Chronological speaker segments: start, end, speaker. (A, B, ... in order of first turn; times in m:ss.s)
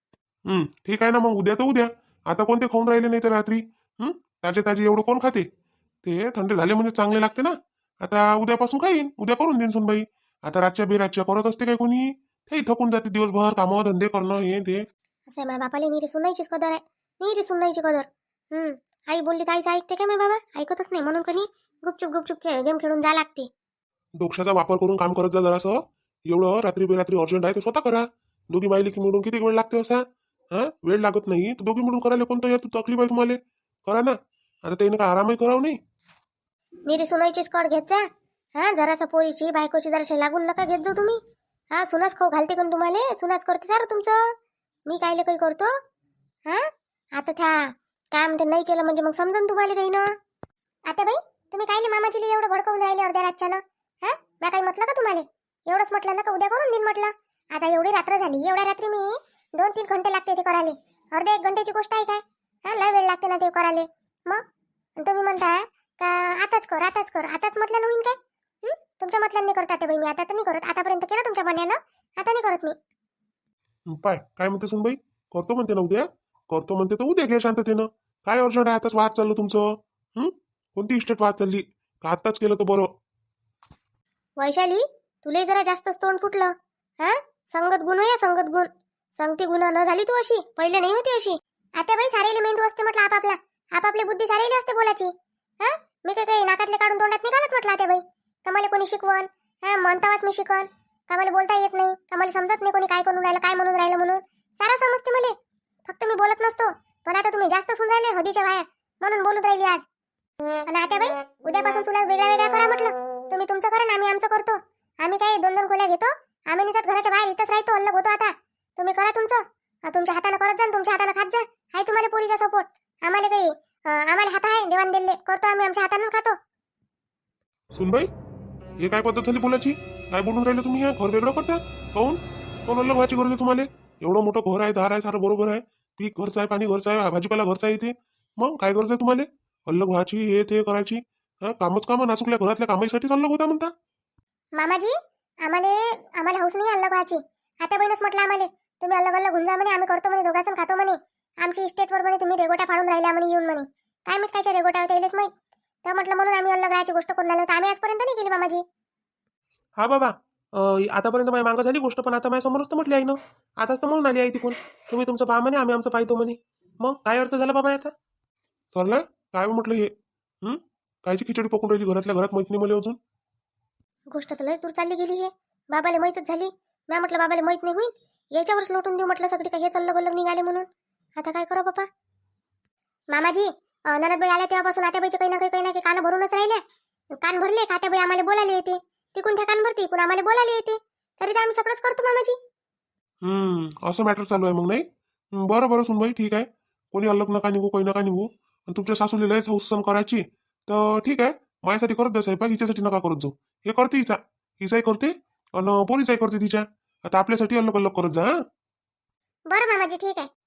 0:00.5-0:05.4 A
0:06.0-0:14.8 A
0:15.3-0:23.5 B
0:24.2-0:35.8 A
0:36.9-0:41.2 B
0:41.7-0:44.3 B
0:44.9-0:45.7 B
0:46.5-0:50.1 B
0:50.9-1:04.4 B
1:05.0-1:12.8 B
1:13.9-1:22.9 A
1:24.4-1:45.3 B
1:45.8-1:49.8 B
1:50.7-2:06.4 B
2:07.7-2:08.1 A
2:08.8-2:23.7 A
2:24.6-2:24.9 B
2:25.4-2:35.3 B
2:35.8-2:38.6 B
2:39.8-2:47.9 C
2:48.7-2:53.0 A
2:54.1-3:00.6 B
3:01.2-3:01.9 B
3:03.1-3:06.6 B
3:07.2-3:12.4 B
3:13.2-3:14.8 A
3:15.4-3:28.3 A
3:29.5-3:30.3 B